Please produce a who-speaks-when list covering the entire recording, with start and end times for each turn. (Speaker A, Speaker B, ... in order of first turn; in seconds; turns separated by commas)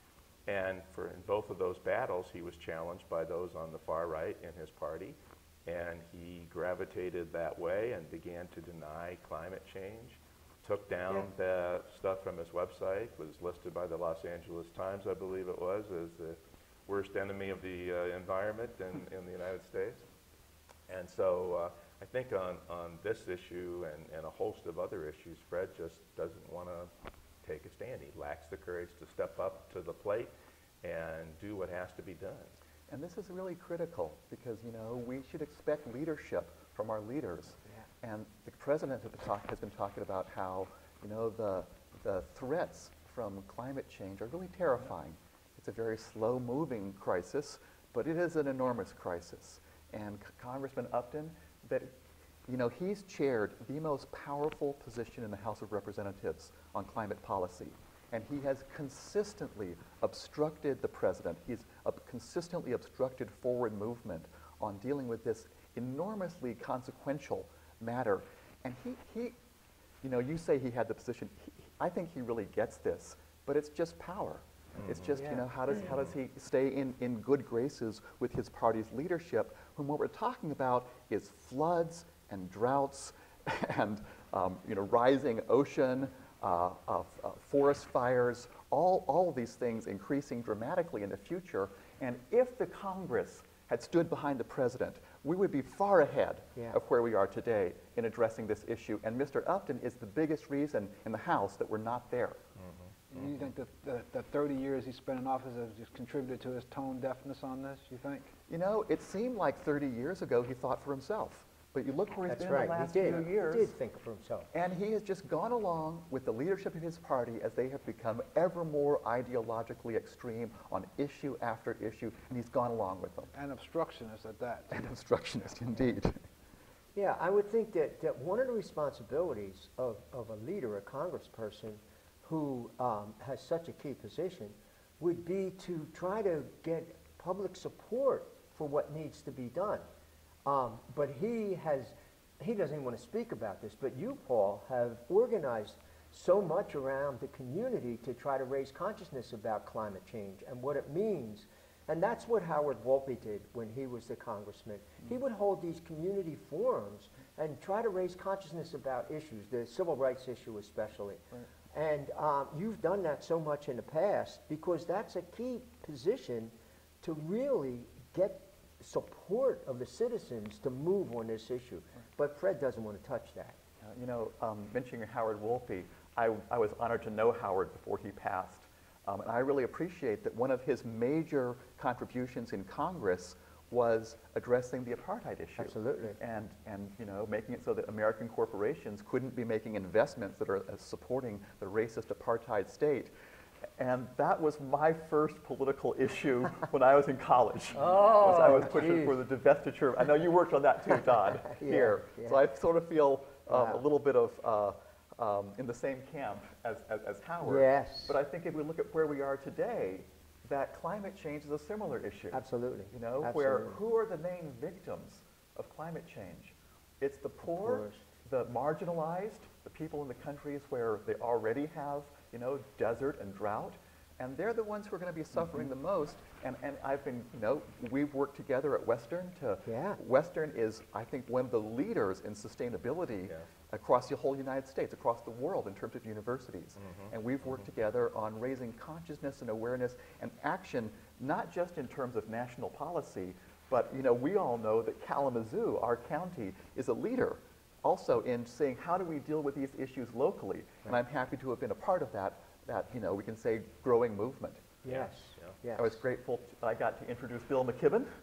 Speaker A: 0.5-20.0, Speaker A: 20.9-26.9, Speaker A: 27.4-30.3, Speaker A: 30.8-32.5, Speaker B: 32.9-51.9, Speaker B: 52.5-69.4, Speaker B: 70.0-102.4, Speaker A: 74.8-75.2, Speaker C: 75.2-75.4, Speaker A: 102.6-103.2, Speaker D: 103.1-108.3, Speaker B: 108.5-113.7, Speaker C: 112.3-114.5, Speaker B: 114.5-123.3, Speaker D: 123.3-124.8, Speaker B: 124.7-126.2, Speaker C: 126.9-139.8, Speaker C: 140.4-173.6, Speaker B: 173.8-193.1, Speaker C: 185.6-186.2, Speaker B: 193.8-254.7, Speaker C: 197.7-199.2, Speaker C: 201.4-202.4, Speaker C: 203.5-203.8, Speaker C: 207.4-208.2, Speaker C: 212.3-213.8, Speaker C: 217.5-218.0, Speaker C: 229.7-230.0, Speaker A: 236.8-237.1, Speaker C: 254.8-256.0, Speaker A: 254.8-255.6, Speaker B: 255.8-258.1